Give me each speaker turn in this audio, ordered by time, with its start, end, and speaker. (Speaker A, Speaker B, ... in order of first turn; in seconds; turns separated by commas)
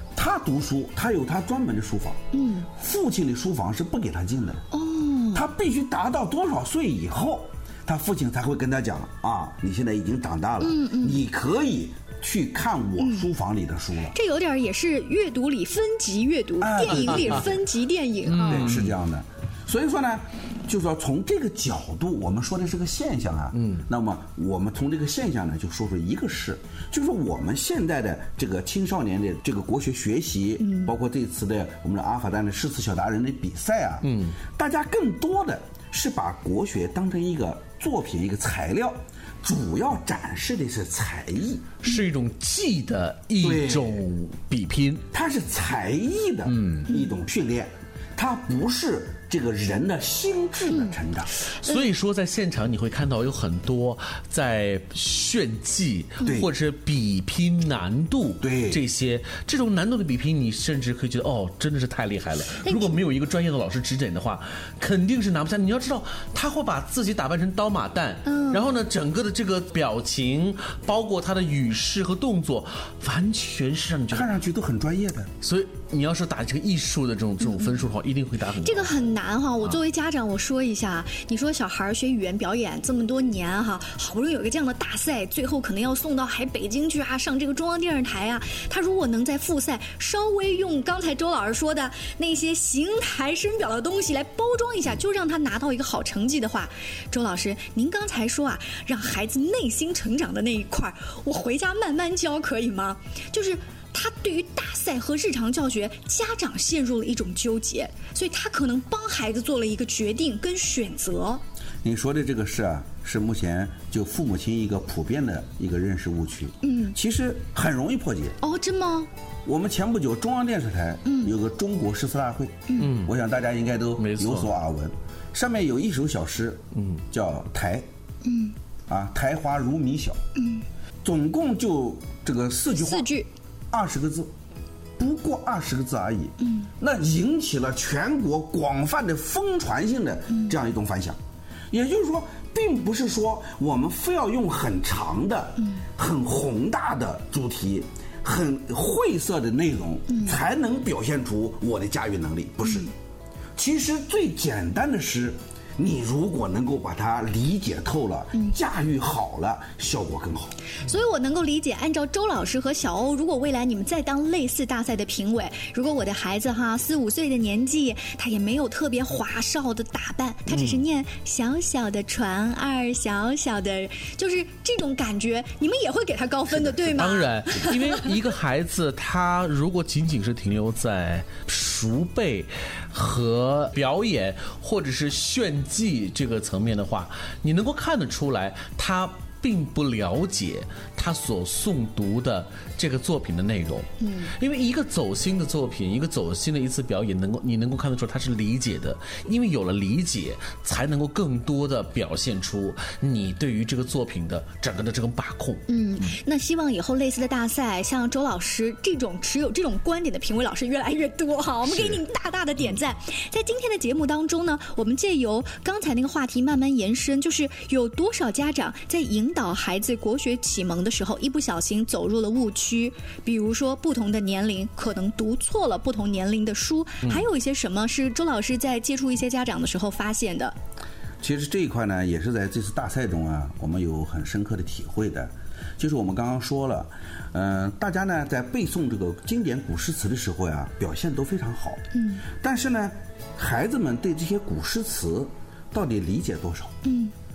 Speaker A: 0.1-4.6, Speaker B: 2.3-2.7, Speaker B: 4.7-5.5, Speaker A: 5.3-14.2, Speaker B: 10.6-11.2, Speaker B: 14.1-18.7, Speaker A: 16.6-17.5, Speaker C: 18.2-18.9, Speaker A: 18.4-41.7, Speaker C: 23.5-23.8, Speaker B: 30.6-30.9, Speaker C: 34.0-34.4, Speaker C: 41.8-45.0, Speaker A: 43.4-44.0, Speaker A: 45.1-51.3, Speaker C: 46.4-46.9, Speaker B: 46.9-47.1, Speaker B: 50.7-50.9, Speaker C: 51.5-74.3, Speaker A: 56.2-56.5, Speaker A: 58.4-58.8, Speaker B: 62.6-62.9, Speaker B: 68.2-68.7, Speaker A: 74.1-75.3, Speaker C: 75.4-78.9, Speaker B: 77.4-77.8, Speaker B: 78.6-111.4, Speaker A: 111.8-118.4, Speaker B: 116.6-117.0, Speaker B: 118.4-119.1, Speaker A: 119.4-127.9, Speaker B: 121.0-121.3, Speaker C: 122.8-123.1, Speaker C: 124.0-124.5, Speaker C: 126.7-127.0, Speaker B: 128.2-128.6, Speaker A: 128.9-130.2, Speaker B: 130.3-130.6, Speaker A: 131.0-133.1, Speaker B: 132.7-133.3, Speaker A: 133.7-134.3, Speaker A: 135.0-141.2, Speaker B: 136.4-136.7, Speaker B: 140.3-140.6, Speaker A: 141.7-152.9, Speaker B: 150.1-150.4, Speaker A: 153.6-160.6, Speaker B: 160.8-177.8, Speaker C: 170.5-170.8, Speaker C: 176.6-206.1, Speaker B: 194.0-194.3, Speaker B: 205.7-230.6, Speaker C: 211.6-212.0, Speaker A: 231.2-246.8, Speaker B: 241.9-242.2, Speaker B: 246.8-247.1